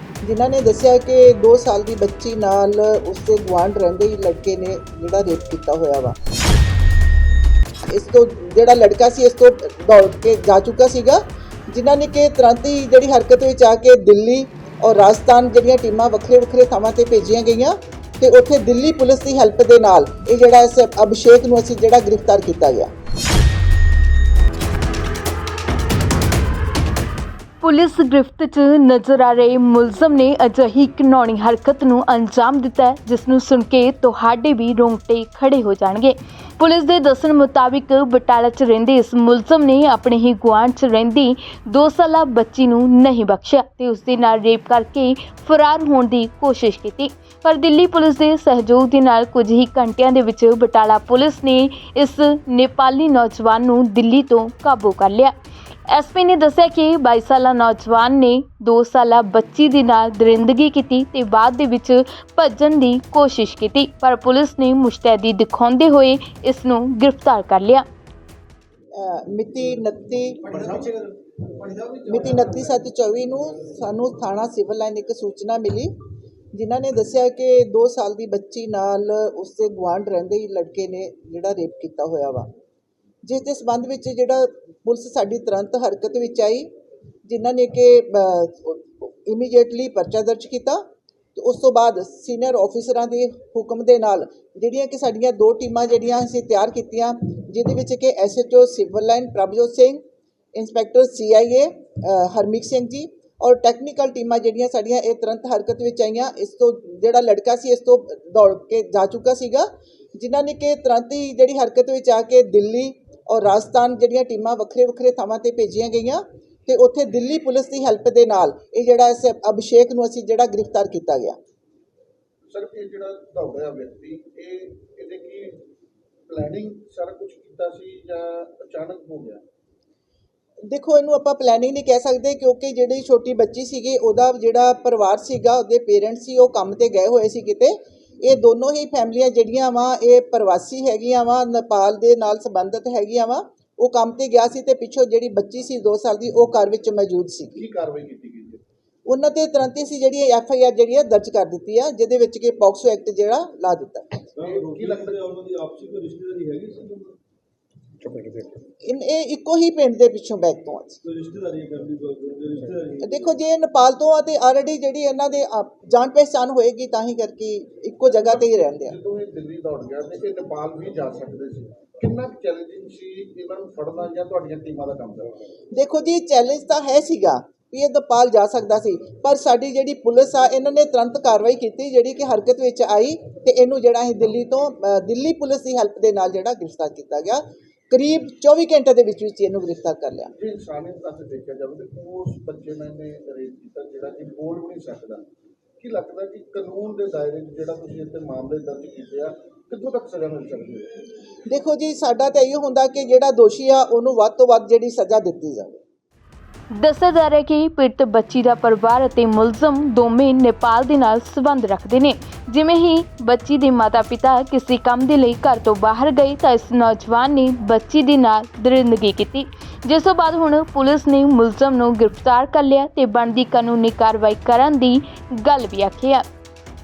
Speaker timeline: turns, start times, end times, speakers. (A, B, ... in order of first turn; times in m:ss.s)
0:00.2-0:06.2 A
0:07.9-0:22.9 A
0:27.6-0:55.3 B
0:55.9-1:07.8 B
1:09.0-1:10.9 A
1:10.5-1:12.6 C
1:12.1-1:15.9 A
1:16.5-1:22.5 A
1:23.2-1:26.7 A
1:27.3-1:30.8 A
1:31.4-1:40.0 A
1:40.6-2:01.4 A
2:02.5-2:05.6 D
2:06.3-2:09.4 D
2:10.7-2:27.6 A
2:27.6-2:28.6 D
2:29.1-2:34.2 A
2:34.3-2:37.2 C
2:34.4-2:35.2 D
2:38.8-2:41.0 A
2:41.0-2:43.2 C
2:43.0-2:49.0 A
2:48.1-2:55.4 D
2:55.7-3:10.3 A
3:10.4-3:15.2 D
3:15.8-3:20.9 D
3:21.5-3:25.8 A
3:26.7-3:46.2 B